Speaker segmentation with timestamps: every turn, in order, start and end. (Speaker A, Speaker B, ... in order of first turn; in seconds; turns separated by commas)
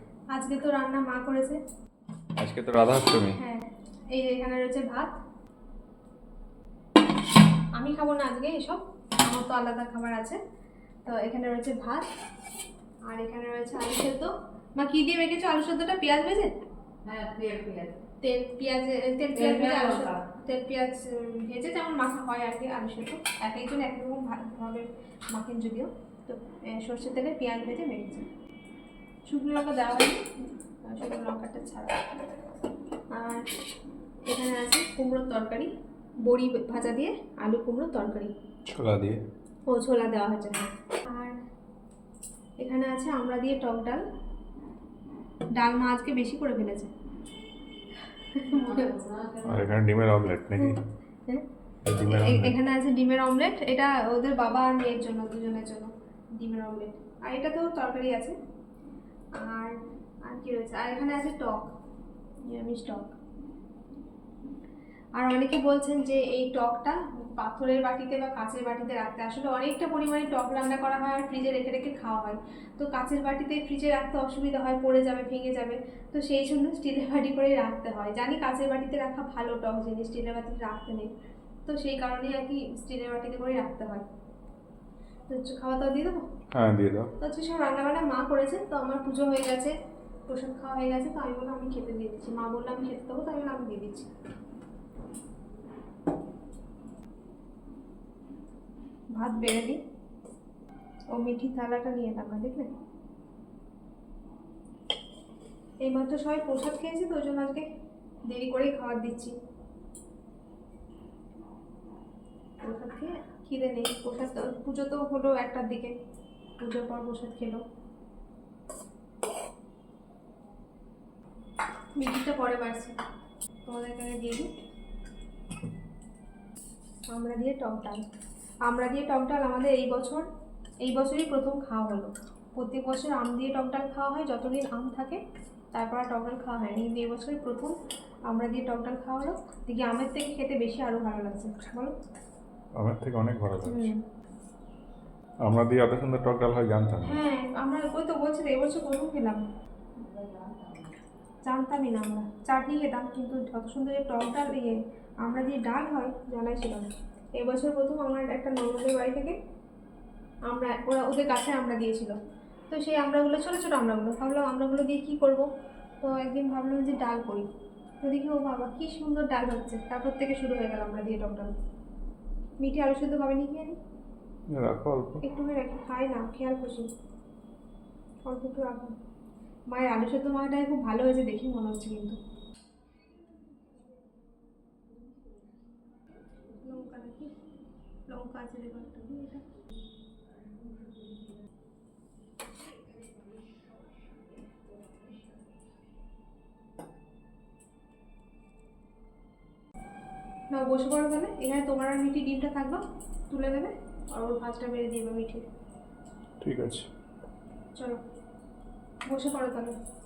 Speaker A: 0.3-1.6, Speaker B: 2.4-3.4, Speaker A: 3.4-5.1, Speaker A: 7.8-10.4, Speaker A: 11.0-12.1, Speaker A: 13.1-16.5, Speaker C: 17.0-18.1, Speaker A: 18.2-28.3, Speaker C: 19.3-20.2, Speaker A: 29.3-30.3, Speaker A: 30.8-32.0, Speaker A: 33.1-33.5, Speaker A: 34.3-35.7, Speaker A: 36.2-38.3, Speaker B: 38.7-39.2, Speaker A: 39.7-41.3, Speaker A: 42.6-44.0, Speaker A: 45.6-46.9, Speaker A: 48.1-48.9, Speaker C: 48.5-49.8, Speaker B: 49.5-50.8, Speaker A: 50.6-51.5, Speaker B: 51.9-52.5, Speaker A: 52.0-58.4, Speaker A: 59.4-61.7, Speaker A: 62.4-63.1, Speaker A: 65.2-81.1, Speaker A: 81.7-84.1, Speaker A: 85.3-86.2, Speaker B: 86.5-87.1, Speaker A: 87.2-89.7, Speaker A: 90.3-94.1, Speaker A: 99.1-99.8, Speaker A: 101.1-102.7, Speaker A: 105.8-107.6, Speaker A: 108.2-109.3, Speaker A: 112.6-115.9, Speaker A: 116.6-117.6, Speaker A: 122.0-122.9, Speaker A: 123.7-124.5, Speaker A: 127.1-128.0, Speaker A: 128.7-130.3, Speaker A: 130.8-135.2, Speaker A: 135.7-137.8, Speaker A: 138.3-141.9, Speaker B: 142.8-143.9, Speaker A: 143.7-144.0, Speaker B: 145.5-147.2, Speaker A: 147.0-149.4, Speaker C: 150.0-150.9, Speaker A: 151.5-156.8, Speaker A: 157.4-159.3, Speaker A: 160.5-162.1, Speaker A: 162.7-165.5, Speaker A: 166.0-167.5, Speaker A: 168.0-171.5, Speaker A: 172.6-173.8, Speaker B: 174.5-175.2, Speaker A: 175.2-176.9, Speaker A: 178.2-178.9, Speaker A: 179.7-182.2, Speaker A: 186.5-187.3, Speaker A: 188.1-189.5, Speaker A: 200.5-205.4, Speaker B: 206.4-206.9, Speaker A: 209.1-209.8